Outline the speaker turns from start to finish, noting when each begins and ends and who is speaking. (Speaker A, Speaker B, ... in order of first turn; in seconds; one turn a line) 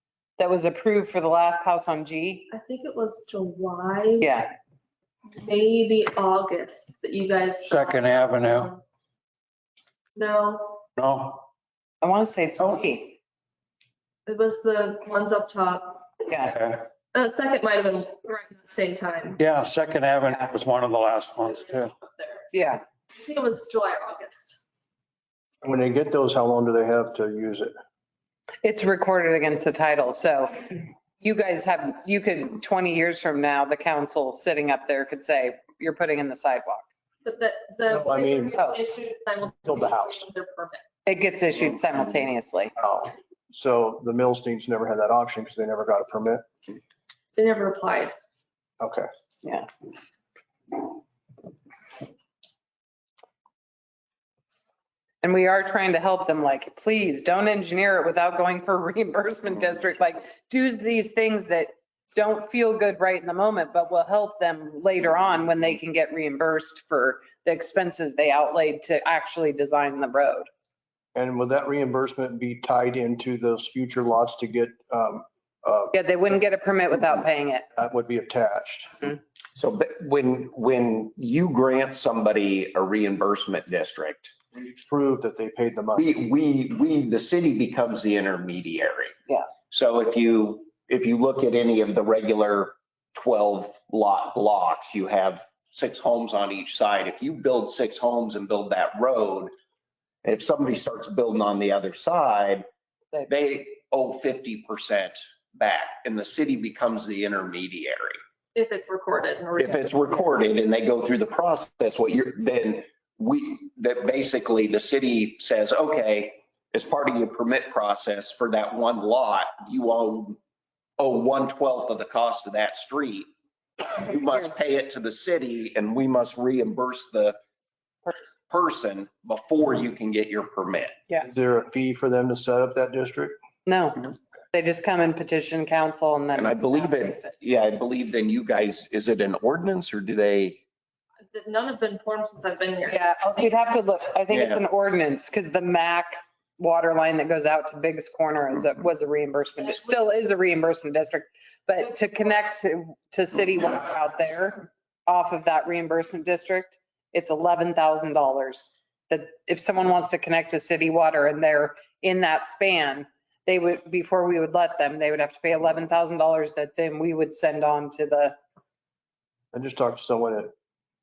Speaker A: 0.4-2.5
Speaker B: 2.5-4.3
Speaker A: 4.2-4.5
Speaker B: 5.3-8.8
Speaker C: 7.6-8.7
Speaker B: 10.2-10.8
Speaker C: 11.0-11.5
Speaker A: 12.0-13.2
Speaker B: 14.3-16.1
Speaker A: 16.3-16.5
Speaker C: 16.4-16.9
Speaker B: 17.1-19.4
Speaker C: 19.4-21.9
Speaker B: 21.9-22.4
Speaker A: 22.5-22.8
Speaker B: 23.1-24.6
Speaker D: 25.6-27.7
Speaker A: 28.6-36.9
Speaker B: 37.2-40.8
Speaker D: 37.9-38.6
Speaker A: 38.5-38.8
Speaker D: 39.6-40.2
Speaker A: 41.1-42.7
Speaker D: 42.8-46.5
Speaker B: 47.4-48.1
Speaker D: 48.8-49.1
Speaker A: 55.2-70.5
Speaker D: 71.2-75.9
Speaker A: 75.9-77.7
Speaker D: 77.8-79.1
Speaker E: 79.6-84.3
Speaker D: 84.8-86.1
Speaker E: 86.0-89.1
Speaker E: 89.7-99.5
Speaker E: 100.2-102.7
Speaker E: 103.3-108.2
Speaker B: 108.5-110.2
Speaker E: 109.6-120.4
Speaker E: 121.0-123.3
Speaker E: 123.8-127.4
Speaker E: 128.5-131.0
Speaker D: 131.3-133.4
Speaker A: 133.7-137.4
Speaker E: 136.3-140.6
Speaker B: 141.3-143.6
Speaker A: 142.9-168.4
Speaker E: 144.3-144.6
Speaker B: 149.6-149.9
Speaker D: 169.5-170.5